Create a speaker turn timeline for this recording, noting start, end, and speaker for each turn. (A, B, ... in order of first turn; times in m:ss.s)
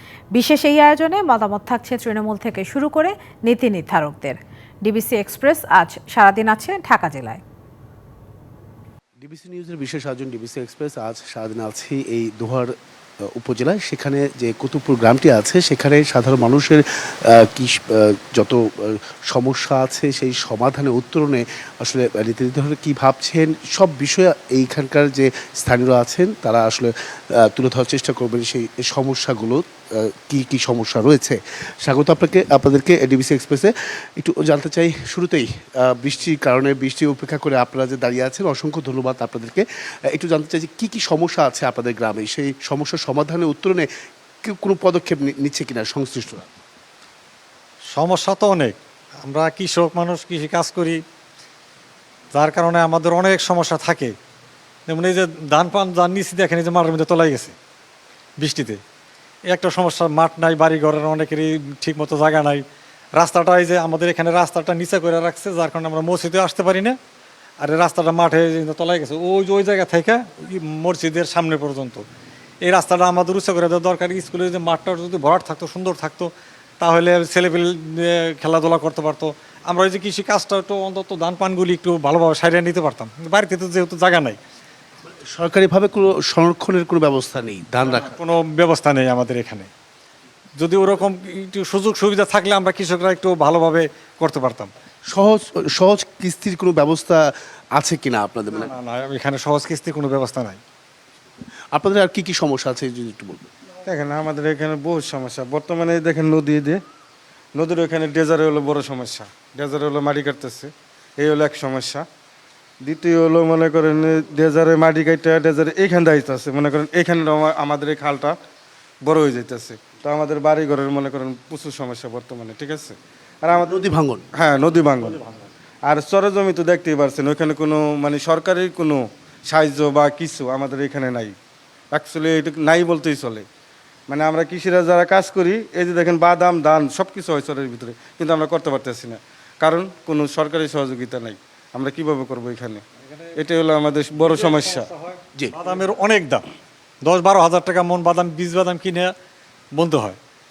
0:00.4-0:07.4 A
0:09.2-0:12.7 B
0:13.3-0:43.9 B
0:44.4-0:46.5 B
0:47.9-0:51.0 C
0:52.3-0:54.1 C
0:54.9-0:57.6 C
0:58.4-0:58.8 C
0:59.5-1:02.6 C
1:03.2-1:07.0 C
1:07.6-1:12.0 C
1:12.7-1:16.3 C
1:16.8-1:24.4 C
1:25.3-1:28.2 B
1:28.0-1:29.7 C
1:30.6-1:34.7 C
1:35.1-1:38.7 B
1:38.6-1:40.6 C
1:41.7-1:43.5 B
1:43.8-1:46.8 D
1:47.6-1:52.0 D
1:52.8-1:58.4 D
1:59.0-2:03.8 D
2:03.6-2:04.2 B
2:04.4-2:05.2 D
2:05.9-2:11.4 D
2:11.9-2:13.5 D
2:14.1-2:22.8 D
2:23.4-2:24.9 D
2:24.2-2:26.5 C
2:27.0-2:29.1 C
2:29.8-2:30.2 C